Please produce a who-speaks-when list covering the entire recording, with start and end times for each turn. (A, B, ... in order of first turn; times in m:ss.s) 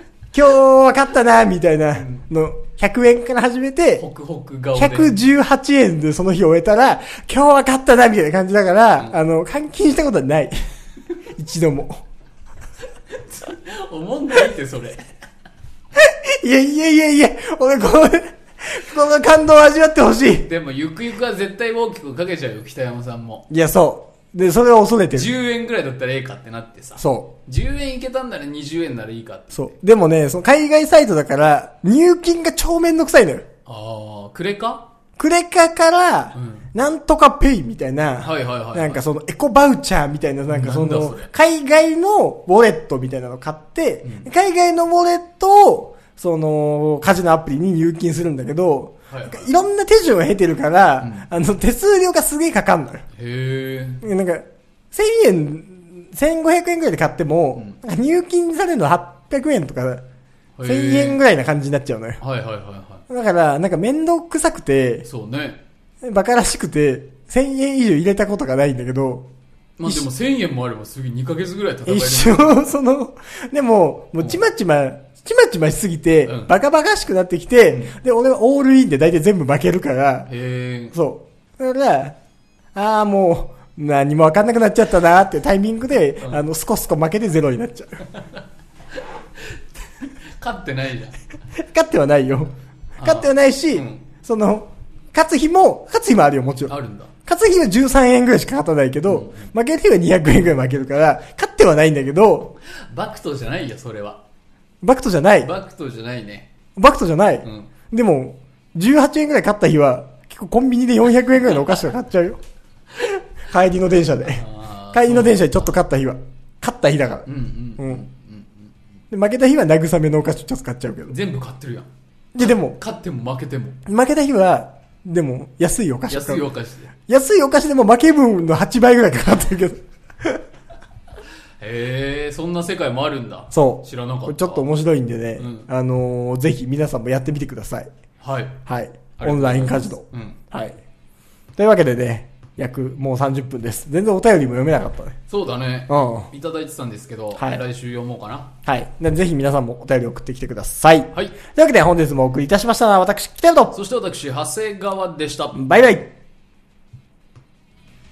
0:00.3-0:04.0 A
0:01.9-0:02.2 B
0:04.0-0:05.2 B
0:04.7-0:10.6 A
0:11.3-0:12.0 A
0:13.1-0:15.1 B
0:15.9-0:20.5 A
0:20.4-0:23.5 B
0:23.5-0:25.3 A
0:25.1-0:29.8 B
0:27.0-0:27.3 A
0:29.5-0:33.5 A
0:33.6-0:34.9 B
0:35.2-0:53.0 A
0:36.3-0:36.6 B
0:38.2-0:39.0 B
0:40.5-0:41.3 B
0:49.1-0:49.5 B
0:51.0-0:51.3 B
0:53.2-0:54.0 B
0:54.0-1:00.0 A
1:00.6-1:01.2 B
1:00.6-1:02.2 A
1:02.2-1:03.0 B
1:03.1-1:05.1 A
1:05.0-1:05.6 B
1:06.0-1:09.3 A
1:09.8-1:12.6 B
1:11.8-1:20.3 A
1:16.2-1:16.5 B
1:20.3-1:21.0 B
1:20.9-1:22.2 A
1:22.7-1:28.0 A
1:29.4-1:31.2 B
1:31.5-1:42.5 A
1:33.0-1:34.1 B
1:36.7-1:37.1 B
1:39.1-1:39.5 B
1:42.7-1:44.2 B
1:44.8-1:45.5 A
1:45.4-1:46.5 B
1:46.8-1:52.4 A
1:47.4-1:47.7 B
1:53.4-1:58.0 A
1:54.3-1:55.8 B
1:57.2-1:58.7 B
1:59.1-2:01.2 A
2:01.1-2:01.9 B
2:02.3-2:02.8 A
2:02.4-2:03.8 B
2:03.8-2:10.4 A
2:06.1-2:06.9 B
2:11.6-2:14.7 B
2:13.5-2:17.9 A
2:15.4-2:15.7 B
2:18.2-2:18.6 B
2:18.6-2:20.8 A
2:19.2-2:20.4 B
2:21.6-2:25.2 A
2:25.3-2:28.5 B
2:25.9-2:26.3 A
2:27.4-2:27.6 A
2:28.6-2:33.7 A
2:33.7-2:35.6 B
2:35.5-2:36.1 A